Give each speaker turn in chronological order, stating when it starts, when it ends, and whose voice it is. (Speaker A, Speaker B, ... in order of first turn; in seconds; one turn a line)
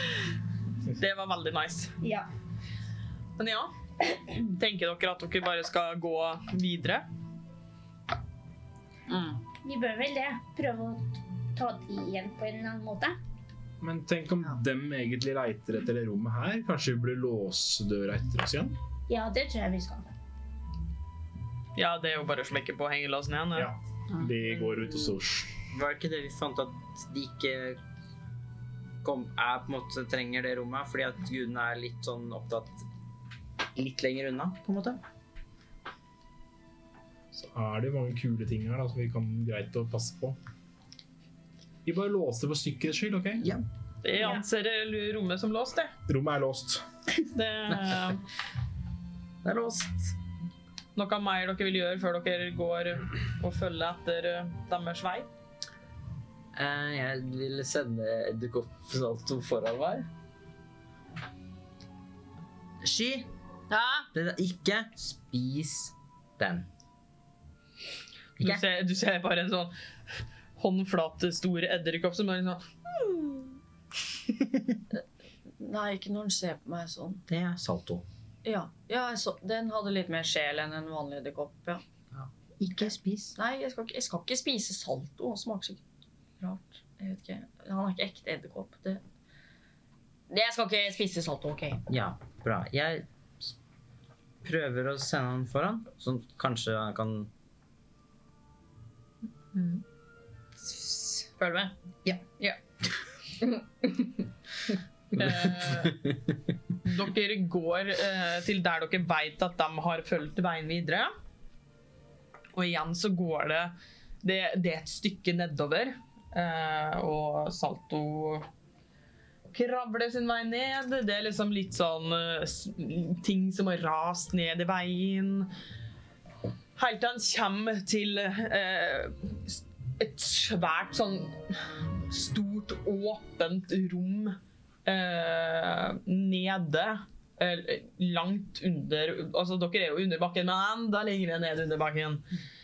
Speaker A: 0.9-1.9
Speaker B: 2.0-2.3
Speaker A: 3.4-3.7
Speaker A: 4.5-7.0
Speaker C: 9.1-9.4
Speaker B: 9.6-13.2
Speaker D: 13.8-18.8
Speaker B: 19.1-20.1
Speaker A: 21.8-23.7
Speaker D: 23.5-25.6
Speaker A: 24.6-24.9
Speaker E: 25.7-27.8
Speaker E: 29.0-32.8
Speaker E: 33.8-35.0
Speaker D: 37.3-40.4
Speaker D: 41.8-43.5
Speaker A: 44.0-45.9
Speaker D: 46.1-46.8
Speaker A: 47.3-48.2
Speaker E: 49.4-50.1
Speaker A: 51.0-55.3
Speaker E: 56.5-60.1
Speaker E: 62.8-63.3
Speaker C: 63.7-64.1
Speaker E: 64.1-66.7
Speaker E: 68.4-68.6
Speaker A: 68.4-69.7
Speaker A: 70.6-72.7
Speaker C: 75.6-77.2
Speaker E: 77.3-78.0
Speaker C: 78.4-81.8
Speaker E: 82.1-83.4
Speaker C: 83.3-85.8
Speaker C: 86.4-89.0
Speaker C: 90.3-91.8
Speaker E: 91.9-93.5
Speaker E: 94.4-97.3
Speaker C: 99.5-99.8
Speaker C: 100.7-102.6
Speaker C: 103.4-104.1
Speaker A: 105.1-106.0
Speaker E: 105.2-106.1
Speaker A: 106.8-111.1
Speaker A: 112.5-118.5
Speaker A: 119.5-125.5
Speaker A: 126.8-142.2